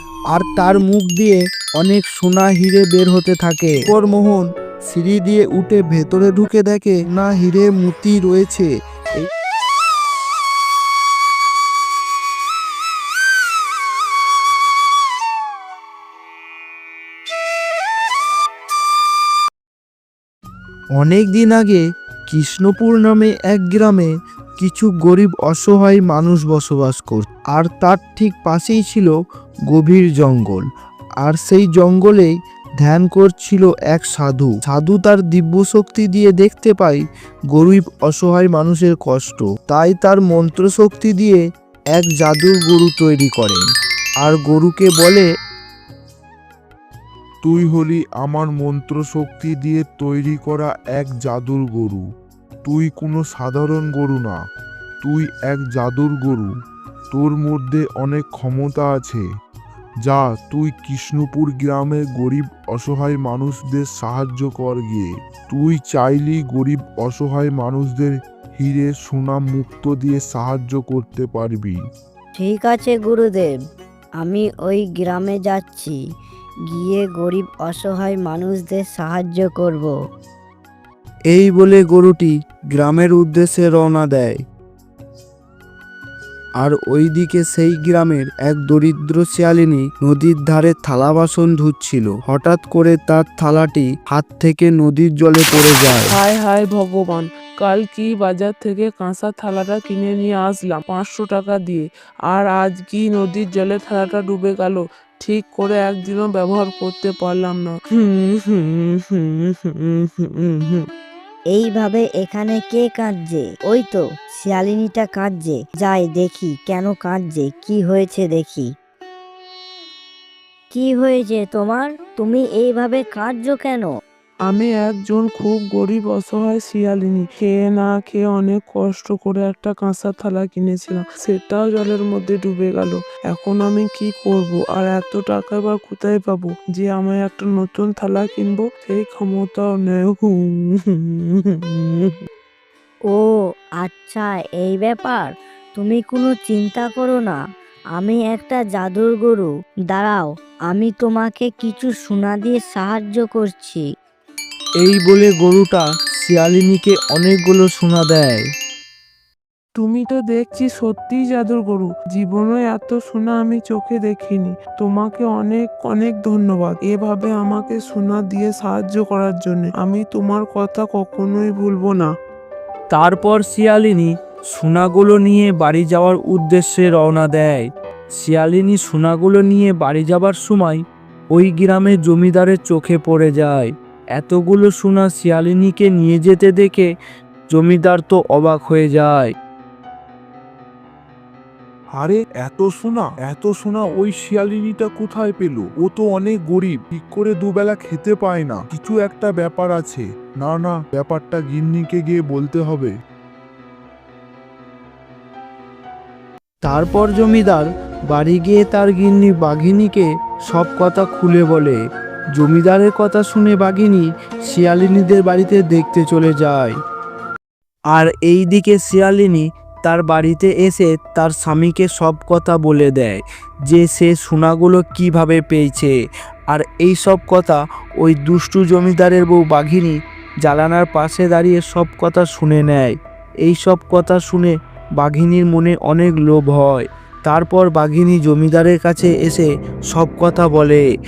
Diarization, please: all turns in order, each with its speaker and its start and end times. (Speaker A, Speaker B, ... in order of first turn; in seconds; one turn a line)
Speaker A: 0.3-9.3
Speaker A: 20.9-29.1
Speaker A: 29.7-30.6
Speaker A: 31.2-41.4
Speaker A: 41.9-43.6
Speaker A: 44.2-45.3
Speaker B: 47.4-52.0
Speaker B: 52.6-54.4
Speaker B: 55.0-56.5
Speaker B: 57.1-59.2
Speaker B: 60.0-71.8
Speaker C: 72.4-73.5
Speaker C: 74.2-76.0
Speaker C: 76.7-79.9
Speaker A: 81.3-84.4
Speaker A: 86.6-96.2
Speaker D: 96.1-110.8
Speaker C: 111.5-118.7
Speaker C: 120.7-123.9
Speaker D: 124.5-142.2
Speaker C: 143.8-147.4
Speaker C: 147.9-153.8
Speaker A: 154.8-158.4
Speaker D: 159.8-172.1
Speaker A: 172.9-177.7
Speaker A: 178.2-180.8
Speaker A: 181.3-186.9
Speaker A: 187.5-189.3
Speaker B: 191.9-202.9
Speaker A: 206.6-211.8
Speaker A: 212.3-216.8
Speaker A: 217.9-225.9
Speaker A: 226.5-240.8